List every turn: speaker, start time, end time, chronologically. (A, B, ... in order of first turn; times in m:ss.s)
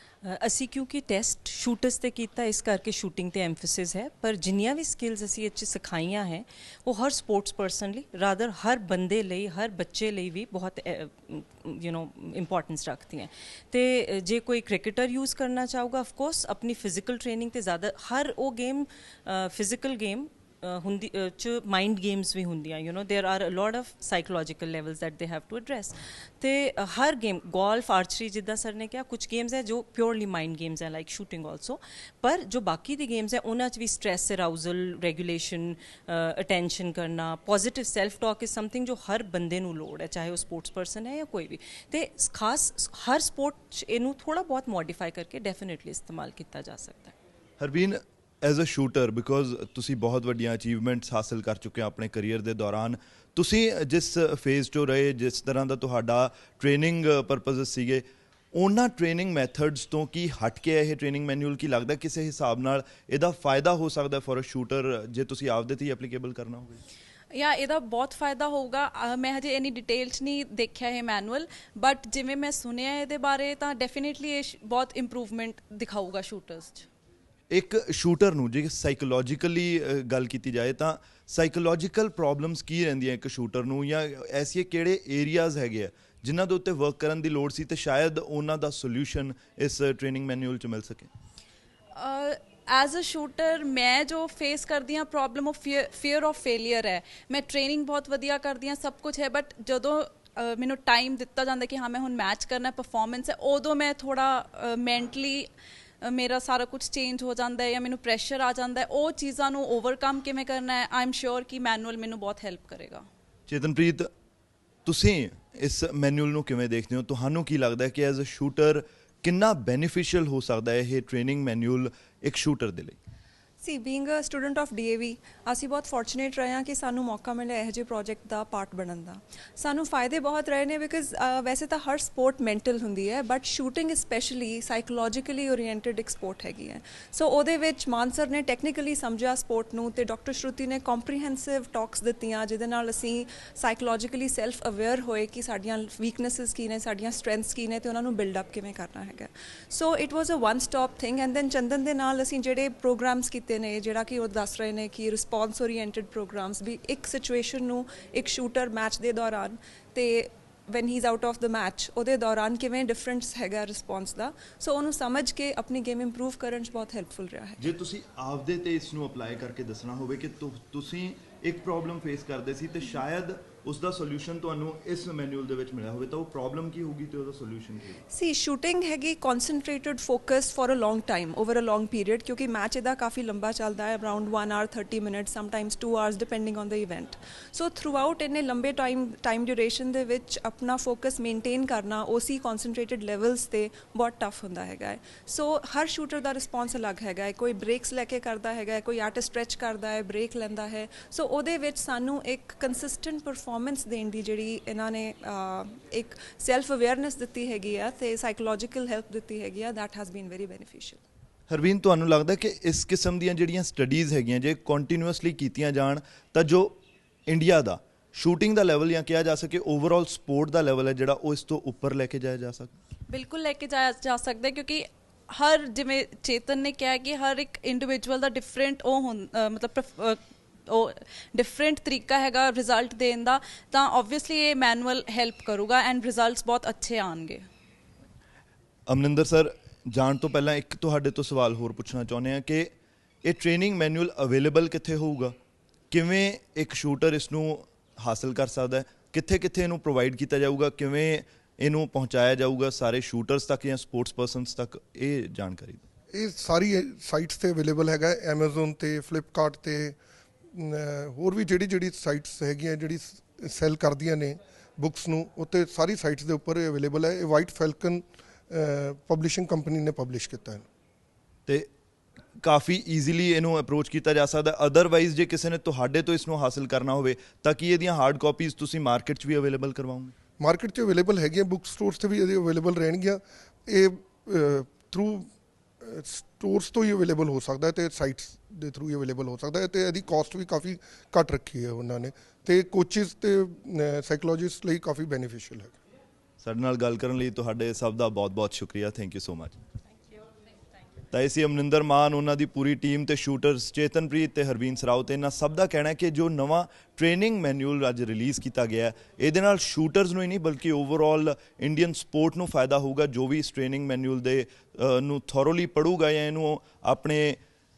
0:00.2-0:47.1 A
0:47.6-0:58.0 B
0:58.5-1:06.8 B
1:07.3-1:16.9 C
1:17.5-1:31.1 B
1:32.0-1:45.5 C
1:46.0-1:53.0 C
1:53.5-1:54.1 B
1:54.8-2:03.0 B
2:03.6-2:47.6 D
2:47.6-2:58.0 B
2:58.1-3:31.0 D
3:31.5-3:42.8 B
3:43.1-3:57.4 C
3:58.9-4:02.7 B
4:03.2-4:05.3 B
4:05.9-4:15.8 B
4:16.1-4:20.0 E
4:20.5-4:30.6 E
4:32.4-4:40.1 B
4:40.4-4:45.3 E
4:45.8-4:55.8 E
4:56.4-4:59.6 B
5:01.1-5:17.4 B